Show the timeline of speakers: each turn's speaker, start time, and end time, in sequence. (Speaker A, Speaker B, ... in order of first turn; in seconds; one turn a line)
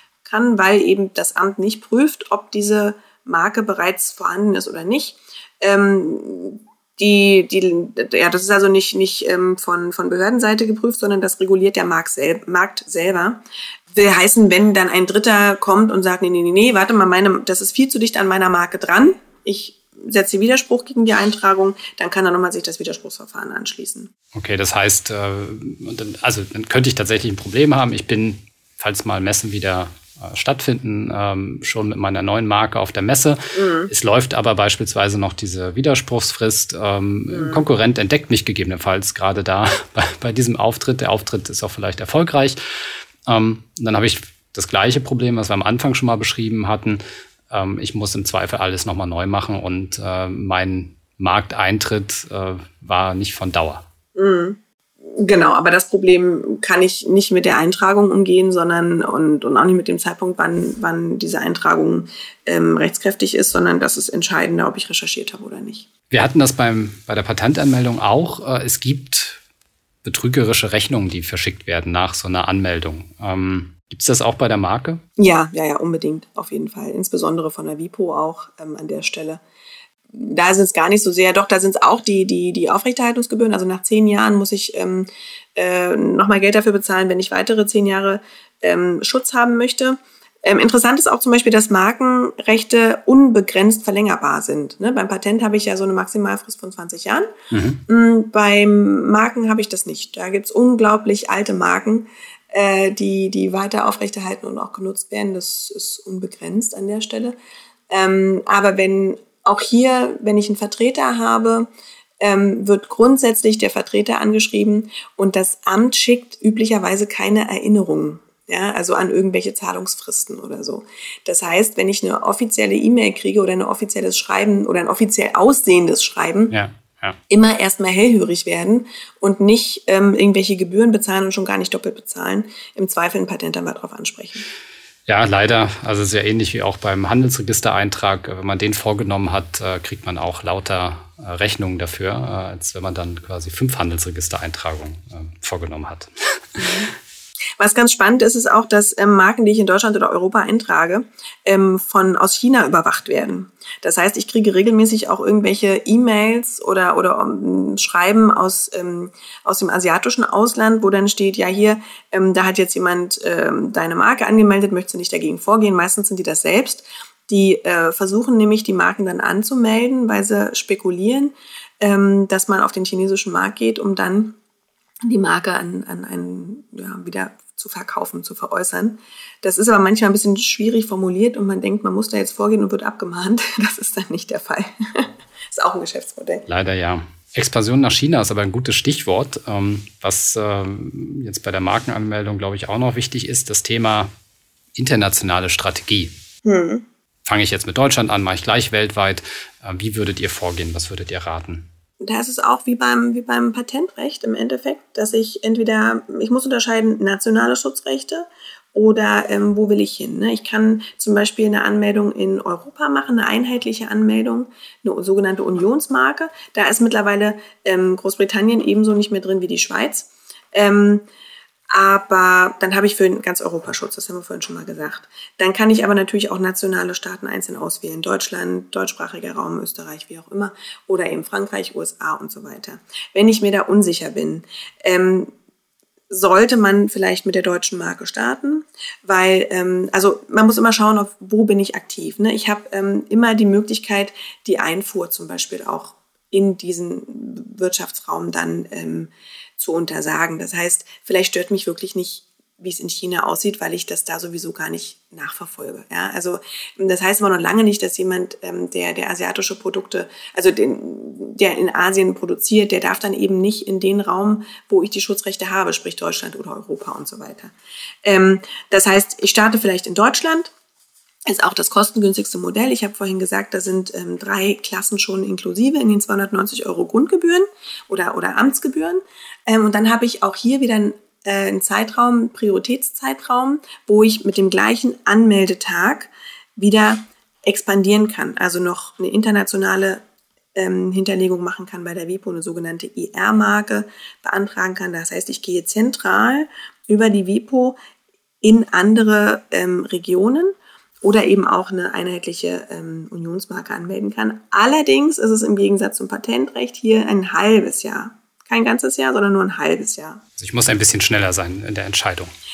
Speaker A: 0.2-24.1
Speaker B: 24.3-42.6
Speaker A: 33.5-33.9
Speaker A: 37.3-37.6
Speaker B: 43.3-53.9
Speaker A: 54.1-65.9
Speaker B: 66.1-69.4
Speaker B: 70.0-75.0
Speaker A: 75.2-79.4
Speaker A: 80.1-97.3
Speaker B: 97.5-97.8
Speaker A: 97.9-107.4
Speaker A: 107.9-111.7
Speaker A: 112.2-126.5
Speaker B: 126.5-127.2
Speaker A: 127.3-134.4
Speaker B: 135.1-146.9
Speaker A: 147.6-174.4
Speaker A: 175.0-186.4
Speaker B: 186.5-194.1
Speaker B: 194.7-196.1
Speaker A: 196.4-196.8
Speaker B: 197.2-201.7
Speaker A: 202.0-221.1
Speaker A: 221.7-235.3
Speaker A: 236.1-267.5
Speaker A: 268.0-270.5
Speaker A: 271.3-290.0
Speaker A: 290.6-297.8
Speaker A: 298.4-310.2
Speaker B: 310.4-312.3